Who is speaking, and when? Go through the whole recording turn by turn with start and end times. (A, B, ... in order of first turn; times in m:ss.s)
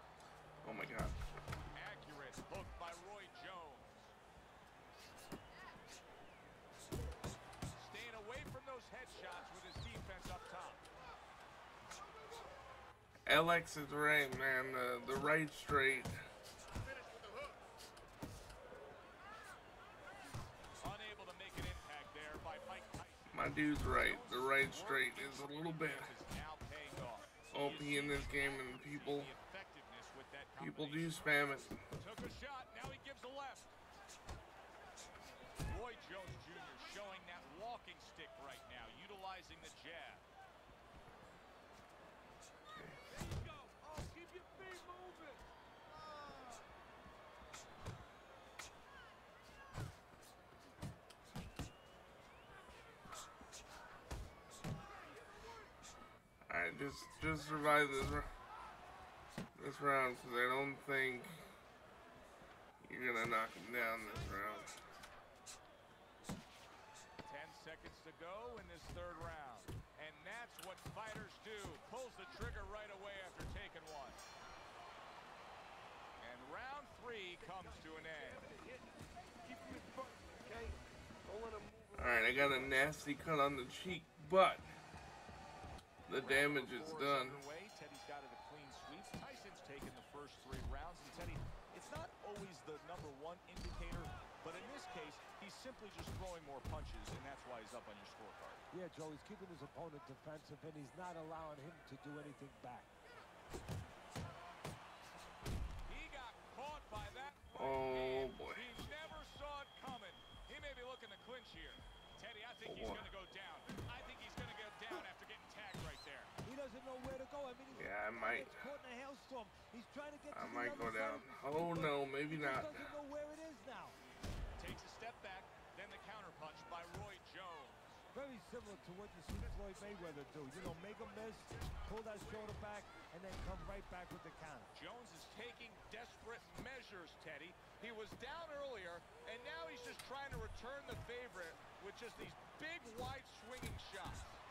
0:00.6-0:01.2 A
0:01.7-0:04.1 B
0:07.7-0:10.8 B
0:13.2-0:16.1 A
0:20.8-0:23.3 B
0:23.3-0:26.1 A
0:23.8-0:31.4 B
0:27.5-0:29.3 A
0:30.6-0:31.8 A
0:32.0-0:33.8 B
0:35.7-0:40.2 B
0:42.7-0:43.0 A
0:43.6-0:45.3 C
0:56.5-0:58.3 A
0:59.6-1:01.3 A
1:02.8-1:04.7 A
1:07.2-1:14.2 B
1:16.2-1:18.5 B
1:21.9-1:24.7 A
1:26.1-1:27.4 A
1:26.2-1:31.4 B
1:31.7-1:32.1 C
1:32.0-1:38.6 B
1:38.7-1:42.9 C
1:45.9-1:56.3 B
1:47.5-1:48.7 A
1:52.6-1:53.1 A
1:56.4-2:04.0 C
1:57.7-1:58.6 A
2:00.3-2:02.9 A
2:04.6-2:08.0 B
2:08.1-2:14.7 C
2:14.7-2:24.4 B